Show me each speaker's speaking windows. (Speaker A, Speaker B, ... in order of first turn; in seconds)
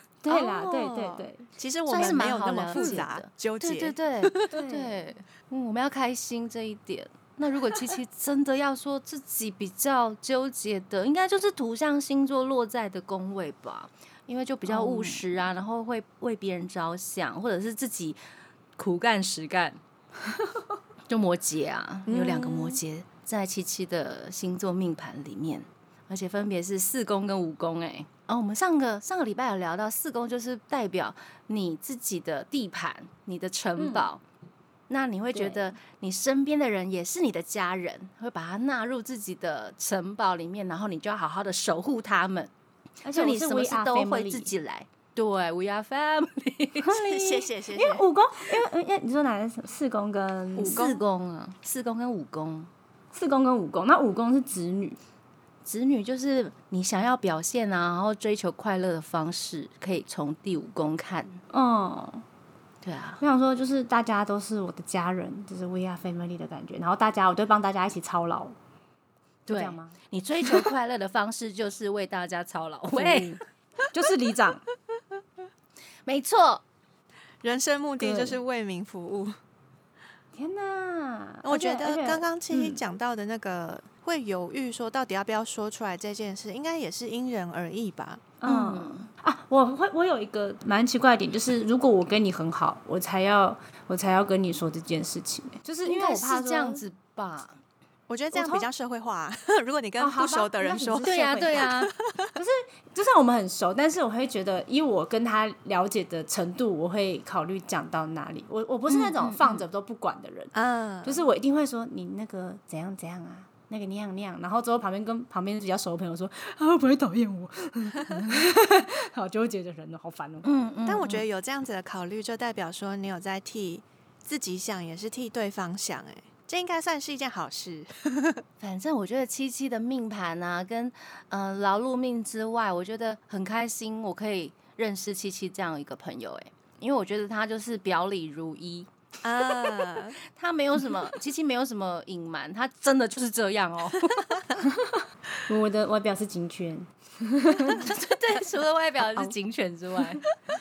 Speaker A: 0.2-3.0, 4.5-5.1, 14.7-15.2, 33.8-34.1, 35.3-35.7, 43.0-44.5, 46.8-50.8, 53.1-55.0, 61.5-62.2, 63.2-68.5, 69.5-69.9, 72.9-73.4, 73.9-74.6, 78.0-78.4, 80.3-82.8, 88.4-96.8, 98.3-98.7, 100.0-101.7, 102.3-110.5, 111.0-120.5, 144.6-147.9
Speaker B: 0.3-4.5, 22.1-22.8, 46.9-48.0, 50.6-51.0, 77.4-79.3, 81.4-88.2, 98.1-102.3, 110.5-111.2, 120.8-128.4, 139.2-140.2
Speaker C: 1.9-18.2, 18.8-19.8, 21.1-34.2, 34.9-42.5, 43.1-47.0, 50.6-52.7, 55.6-61.4, 62.8-63.2, 69.5-73.4, 76.0-76.6, 88.4-89.1, 95.8-97.6, 101.0-101.9, 108.9-109.6, 120.4-121.2, 128.6-138.9, 139.6-144.4, 147.6-150.2